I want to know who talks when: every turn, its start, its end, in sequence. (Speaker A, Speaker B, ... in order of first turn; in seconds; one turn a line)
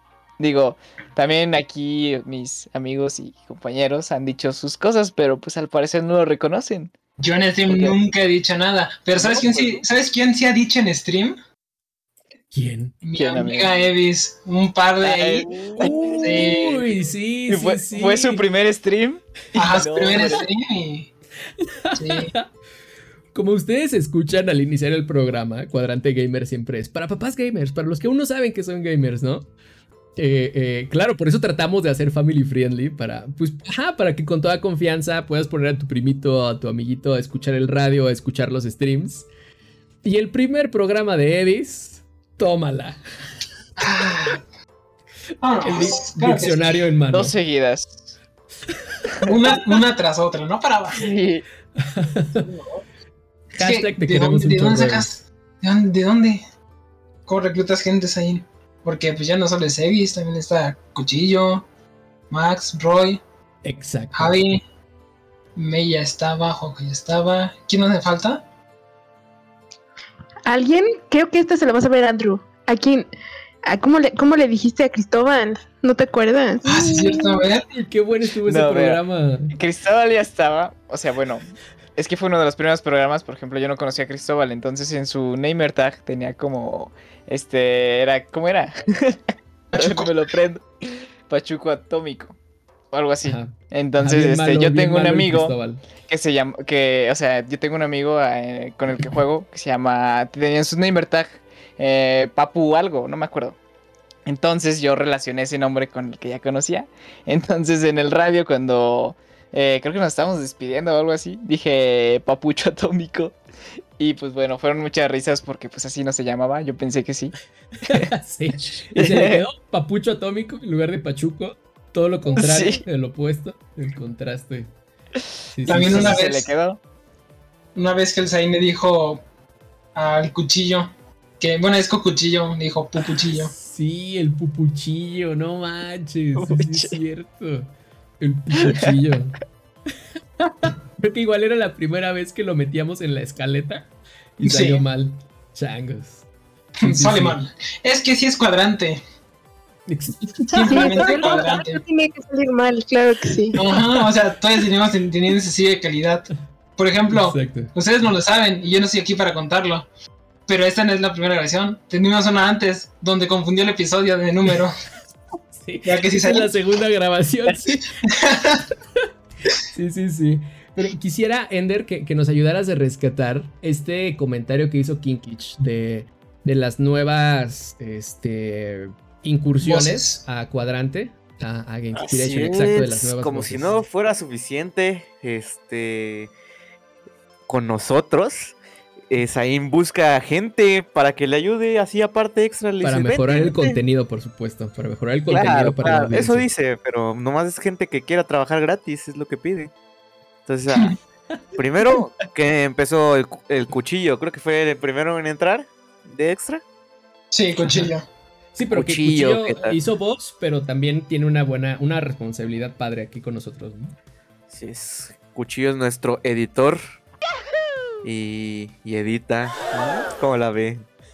Speaker A: 0.4-6.9
Speaker B: 7.2-11.4
Speaker A: 7.7-8.0
Speaker C: 9.2-9.8
Speaker D: 12.5-13.0
Speaker B: 13.0-15.6
Speaker A: 13.2-13.7
Speaker A: 15.0-16.4
Speaker C: 15.5-15.9
Speaker D: 15.8-18.5
Speaker B: 16.2-16.8
Speaker A: 17.5-20.5
Speaker B: 19.6-21.1
Speaker D: 21.6-22.5
Speaker B: 21.9-22.3
Speaker D: 23.3-29.5
Speaker D: 30.2-39.3
Speaker D: 40.0-43.0
Speaker B: 43.8-44.4
Speaker B: 45.4-46.8
Speaker D: 45.6-47.4
Speaker A: 47.1-48.2
Speaker B: 49.2-51.1
Speaker A: 50.9-51.5
Speaker D: 51.8-52.5
Speaker B: 53.6-56.4
Speaker D: 53.6-55.1
Speaker B: 57.3-61.7
Speaker B: 62.3-63.2
Speaker D: 63.6-64.4
Speaker B: 64.1-64.6
Speaker B: 65.6-68.4
Speaker E: 70.5-73.1
Speaker E: 73.7-77.4
Speaker B: 76.6-77.7
Speaker D: 77.7-79.5
Speaker A: 78.4-79.0
Speaker A: 79.5-92.4
Speaker B: 89.8-90.1
Speaker A: 92.9-103.6
Speaker D: 93.2-95.8
Speaker A: 104.3-113.4
Speaker A: 114.0-117.3
Speaker D: 117.8-124.7
Speaker A: 119.0-119.4
Speaker A: 122.3-122.8
Speaker D: 125.5-126.2
Speaker B: 125.7-126.5
Speaker A: 125.8-126.8
Speaker B: 127.8-129.2
Speaker B: 129.9-133.5
Speaker D: 133.4-139.4
Speaker A: 136.4-137.0
Speaker A: 138.6-138.9
Speaker D: 140.6-143.9
Speaker D: 144.4-146.2
Speaker B: 144.4-144.8
Speaker B: 146.8-149.0
Speaker D: 146.8-147.4
Speaker D: 149.9-151.1
Speaker B: 150.5-151.8
Speaker E: 150.6-153.8
Speaker B: 153.6-159.9
Speaker D: 157.1-157.7
Speaker B: 160.5-164.7
Speaker D: 165.6-167.9
Speaker B: 165.8-166.5
Speaker B: 168.0-168.7
Speaker D: 169.7-183.8
Speaker B: 179.6-180.2
Speaker C: 181.9-186.3
Speaker C: 187.5-188.6
Speaker C: 189.1-193.8
Speaker D: 192.8-196.5
Speaker C: 195.3-199.7
Speaker C: 200.5-201.0
Speaker C: 201.6-206.6
Speaker B: 207.3-208.1
Speaker D: 208.5-213.9
Speaker C: 208.7-209.8
Speaker C: 214.5-216.8
Speaker C: 218.0-220.8